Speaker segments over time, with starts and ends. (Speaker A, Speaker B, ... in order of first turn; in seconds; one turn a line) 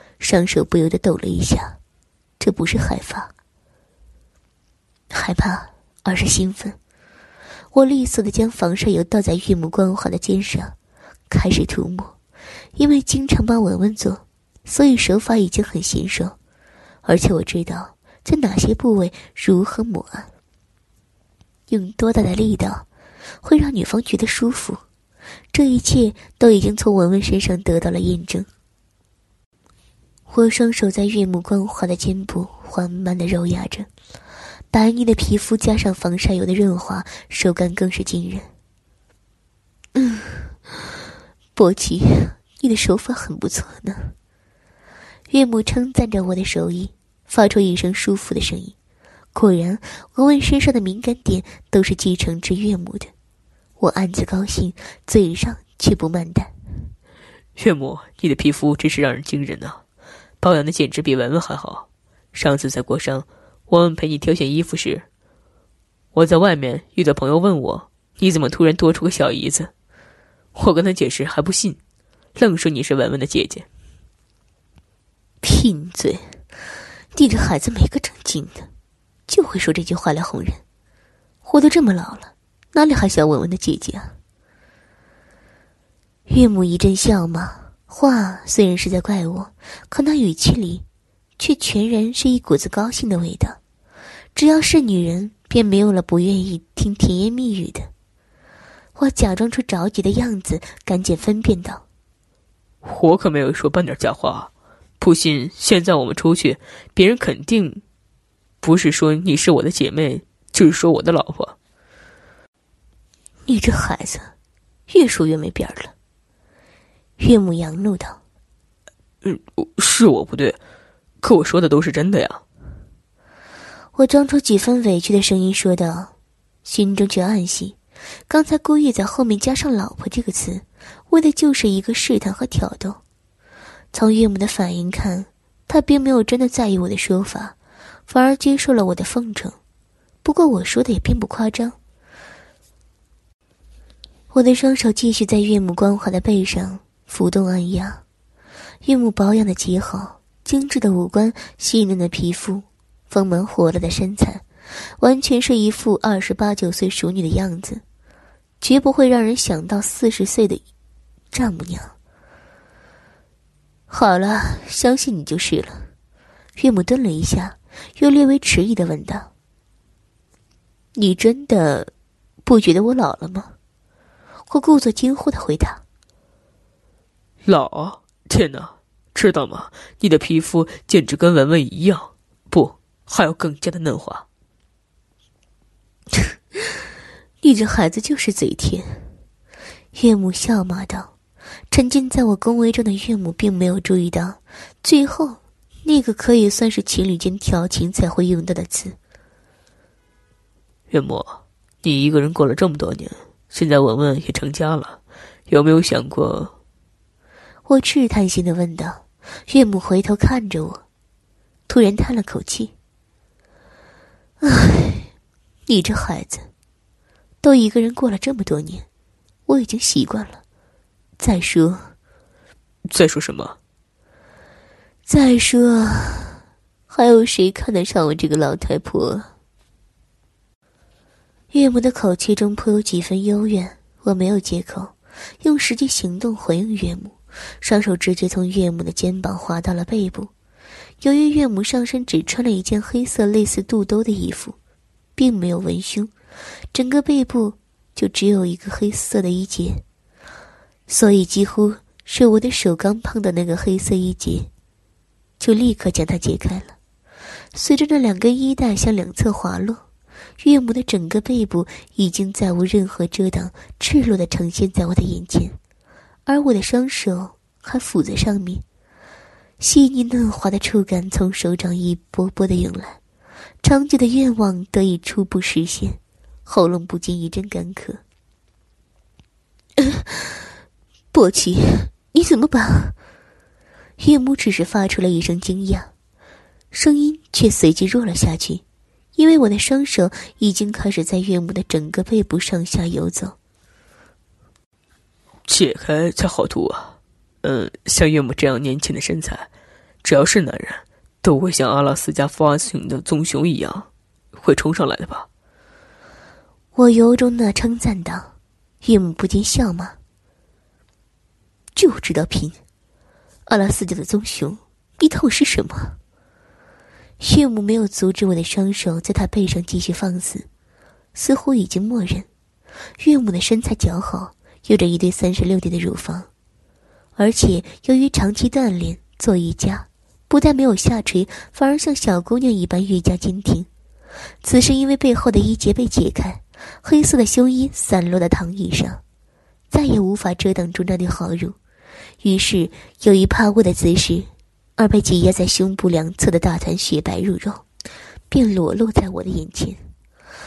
Speaker A: 0.2-1.8
Speaker A: 2.4-3.3
Speaker A: 5.1-6.8
Speaker A: 7.7-10.8
Speaker A: 11.3-12.1
Speaker A: 12.8-16.4
Speaker A: 17.0-20.3
Speaker A: 21.7-22.9
Speaker A: 23.4-24.8
Speaker A: 25.5-28.5
Speaker A: 30.3-33.9
Speaker A: 34.7-38.5
Speaker A: 40.0-40.3
Speaker A: 41.5-44.1
Speaker A: 45.3-48.7
Speaker A: 49.3-53.1
Speaker A: 53.8-56.5
Speaker B: 57.6-59.8
Speaker B: 60.4-65.0
Speaker B: 66.1-69.7
Speaker B: 70.5-71.8
Speaker B: 72.3-73.7
Speaker A: 75.4-76.3
Speaker A: 77.1-78.7
Speaker A: 79.3-80.6
Speaker A: 81.4-84.2
Speaker A: 86.3-90.8
Speaker A: 91.4-93.6
Speaker A: 94.3-97.9
Speaker A: 99.0-101.8
Speaker B: 102.8-107.8
Speaker B: 108.6-111.5
Speaker A: 113.5-114.3
Speaker A: 114.9-115.9
Speaker A: 117.2-118.2
Speaker B: 119.2-120.6
Speaker B: 121.2-122.4
Speaker A: 123.9-126.1
Speaker A: 126.6-127.8
Speaker A: 128.3-133.0
Speaker A: 133.9-137.6
Speaker A: 138.1-139.6
Speaker A: 140.2-141.8
Speaker A: 144.3-148.0
Speaker A: 148.8-154.4
Speaker A: 155.0-157.8
Speaker A: 158.6-160.6
Speaker A: 161.3-161.9
Speaker A: 163.9-165.9
Speaker A: 166.6-169.3
Speaker A: 170.9-171.9
Speaker A: 172.4-173.5
Speaker A: 174.5-175.8
Speaker B: 177.4-184.2
Speaker A: 187.4-189.1
Speaker A: 189.9-191.1
Speaker A: 191.7-198.9
Speaker B: 200.9-206.5
Speaker A: 207.7-210.8
Speaker A: 211.7-212.7
Speaker A: 214.4-215.1
Speaker A: 215.7-216.5
Speaker A: 217.4-218.8
Speaker A: 219.5-220.4
Speaker A: 221.2-221.9
Speaker B: 222.9-223.6
Speaker A: 225.1-229.3
Speaker A: 231.5-240.3
Speaker A: 241.0-244.6
Speaker A: 245.2-246.1
Speaker A: 246.7-249.8
Speaker A: 250.9-254.5
Speaker A: 255.4-256.8
Speaker A: 257.5-259.8
Speaker A: 260.4-265.6
Speaker A: 266.2-268.6
Speaker A: 269.6-273.0
Speaker A: 273.6-278.0
Speaker A: 279.8-280.1
Speaker A: 281.1-282.9
Speaker A: 284.0-285.9
Speaker A: 286.7-288.6
Speaker A: 289.1-293.4
Speaker B: 295.5-299.5
Speaker B: 300.0-305.3
Speaker A: 306.7-310.0
Speaker A: 311.7-312.6
Speaker A: 313.5-316.0
Speaker A: 317.2-320.5
Speaker A: 321.1-322.3
Speaker A: 323.0-326.3
Speaker A: 327.2-333.7
Speaker A: 334.4-339.0
Speaker A: 339.7-341.6
Speaker A: 342.2-347.6
Speaker A: 348.3-349.8